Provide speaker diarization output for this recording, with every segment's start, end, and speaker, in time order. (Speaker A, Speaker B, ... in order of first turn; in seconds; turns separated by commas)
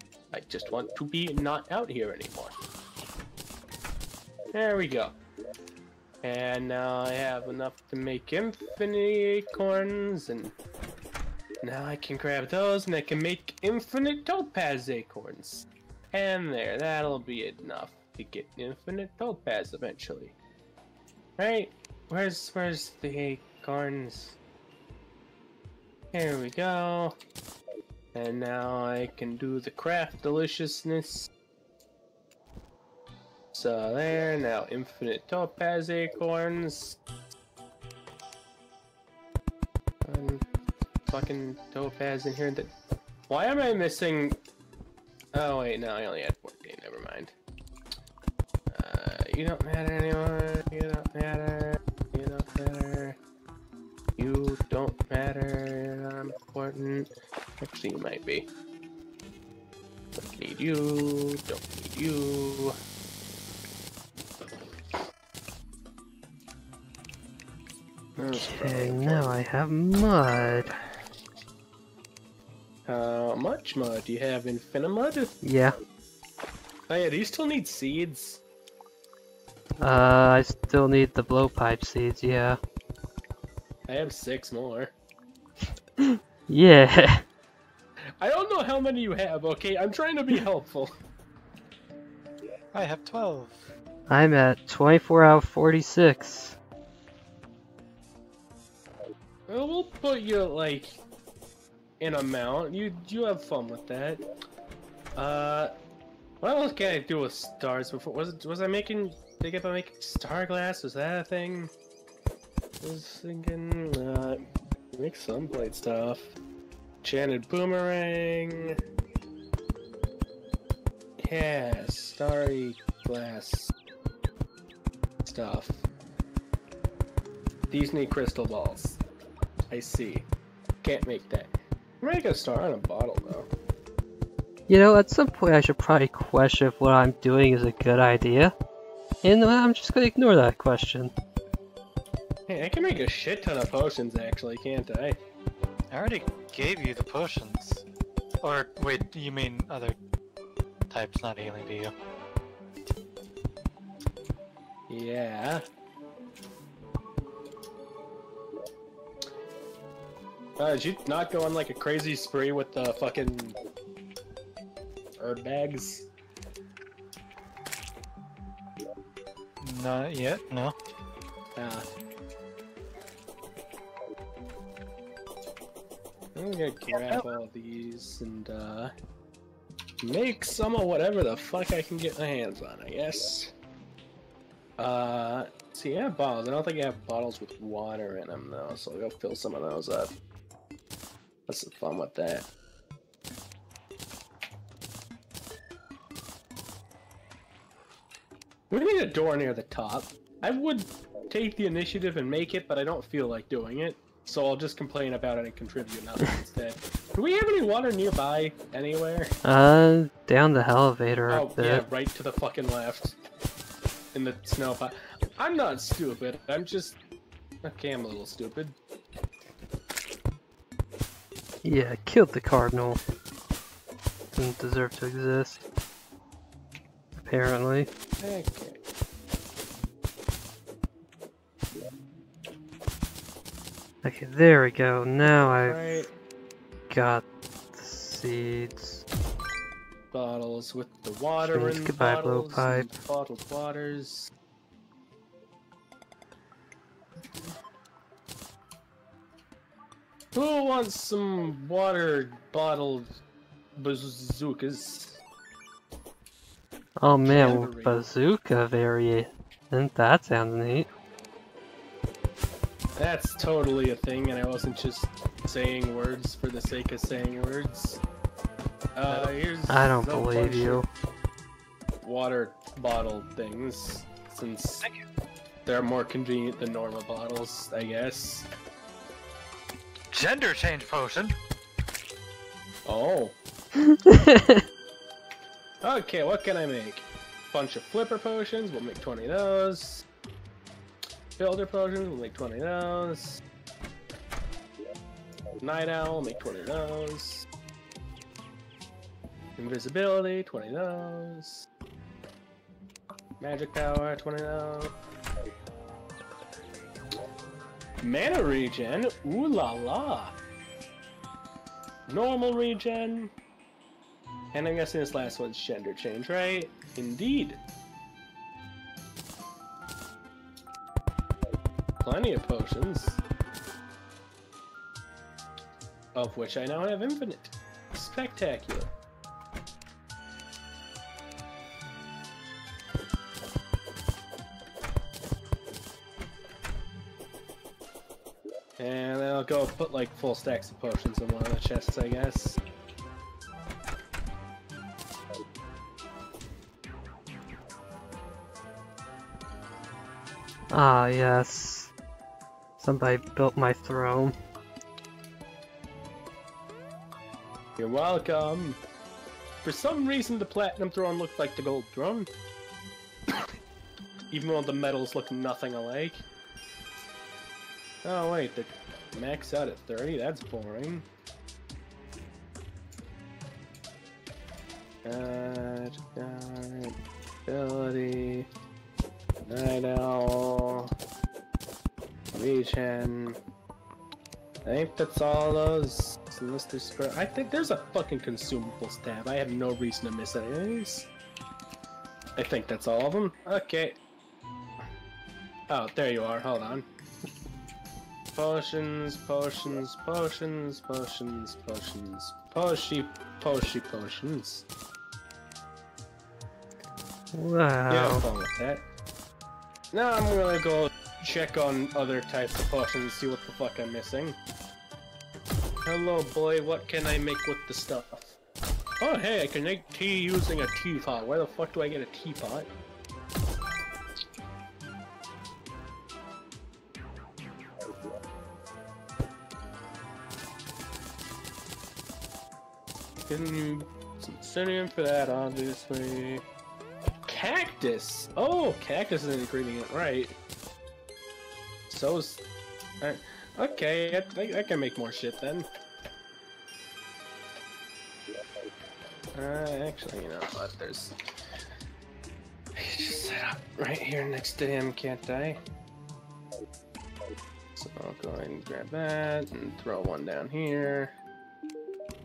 Speaker A: 0.3-2.5, Speaker A: 4.5-5.2, Speaker A: 6.2-10.5, Speaker A: 11.6-20.4, Speaker A: 21.4-24.4, Speaker A: 26.1-27.2, Speaker A: 28.1-31.3, Speaker A: 33.5-37.0, Speaker A: 40.0-40.5, Speaker A: 41.0-42.7, Speaker A: 43.3-44.4, Speaker A: 45.3-47.3, Speaker A: 48.7-53.2, Speaker A: 54.2-57.1, Speaker A: 57.6-58.5, Speaker A: 60.1-62.8, Speaker A: 68.2-69.4, Speaker B: 68.3-70.7, Speaker A: 70.3-70.8, Speaker A: 72.8-75.3, Speaker B: 75.4-75.7, Speaker A: 76.9-78.4, Speaker B: 79.8-82.6, Speaker A: 83.9-84.9, Speaker B: 86.0-87.2, Speaker A: 88.2-90.9, Speaker C: 92.7-93.7, Speaker B: 94.1-96.5, Speaker A: 99.5-101.0, Speaker A: 102.0-104.2, Speaker A: 105.2-105.7, Speaker A: 106.4-111.7, Speaker A: 112.8-116.3, Speaker A: 117.0-118.8, Speaker A: 121.2-123.7, Speaker A: 125.2-125.8, Speaker A: 127.7-129.0, Speaker A: 129.7-130.3, Speaker A: 130.8-133.5, Speaker B: 134.7-138.5, Speaker B: 139.2-141.1, Speaker A: 142.5-145.2, Speaker C: 145.9-147.8, Speaker C: 148.4-150.0, Speaker C: 150.9-151.9, Speaker A: 154.9-155.6, Speaker A: 160.6-163.6, Speaker A: 165.2-166.1, Speaker C: 169.6-170.7, Speaker A: 171.6-171.8, Speaker A: 176.3-178.9, Speaker C: 177.0-177.2, Speaker A: 180.0-183.5, Speaker A: 184.8-190.1, Speaker A: 191.5-192.5, Speaker A: 198.7-209.3, Speaker B: 209.4-211.8, Speaker A: 211.3-213.2, Speaker A: 214.1-217.0, Speaker A: 217.6-218.8, Speaker B: 221.6-223.0, Speaker B: 224.3-225.6, Speaker B: 227.2-227.9, Speaker A: 228.2-228.8, Speaker B: 234.0-236.1, Speaker A: 235.2-236.1, Speaker B: 236.9-239.0, Speaker A: 240.1-244.3, Speaker B: 241.4-242.9, Speaker A: 250.3-253.2, Speaker A: 253.8-255.2, Speaker B: 257.0-260.9, Speaker A: 257.2-258.0, Speaker A: 263.0-268.0, Speaker A: 268.9-270.9, Speaker B: 269.7-270.9, Speaker A: 272.0-274.8, Speaker A: 275.6-278.5, Speaker C: 280.1-281.3, Speaker A: 282.9-283.4, Speaker B: 284.0-284.6, Speaker A: 285.8-290.1, Speaker A: 291.4-293.4, Speaker A: 295.6-297.5, Speaker A: 299.6-301.6, Speaker A: 303.4-304.9, Speaker A: 308.0-310.3, Speaker A: 312.1-313.3, Speaker A: 314.5-317.6, Speaker A: 322.0-323.2, Speaker A: 326.1-328.9, Speaker A: 338.8-342.6, Speaker B: 350.7-351.9, Speaker B: 352.8-354.4, Speaker A: 357.8-358.8, Speaker A: 359.6-362.3, Speaker A: 364.3-366.2, Speaker A: 368.0-371.1, Speaker A: 375.0-378.5, Speaker A: 379.4-380.9, Speaker A: 382.3-383.4, Speaker A: 384.6-391.1, Speaker A: 392.4-394.0, Speaker A: 395.7-396.9, Speaker A: 398.3-404.6, Speaker B: 407.3-408.2, Speaker A: 407.9-408.8, Speaker A: 409.9-414.4, Speaker A: 415.8-418.4, Speaker A: 419.0-422.7, Speaker A: 433.3-436.4, Speaker A: 437.3-440.3, Speaker A: 441.9-442.4, Speaker A: 443.0-445.7, Speaker A: 449.3-451.1, Speaker A: 452.8-455.6, Speaker A: 457.7-461.1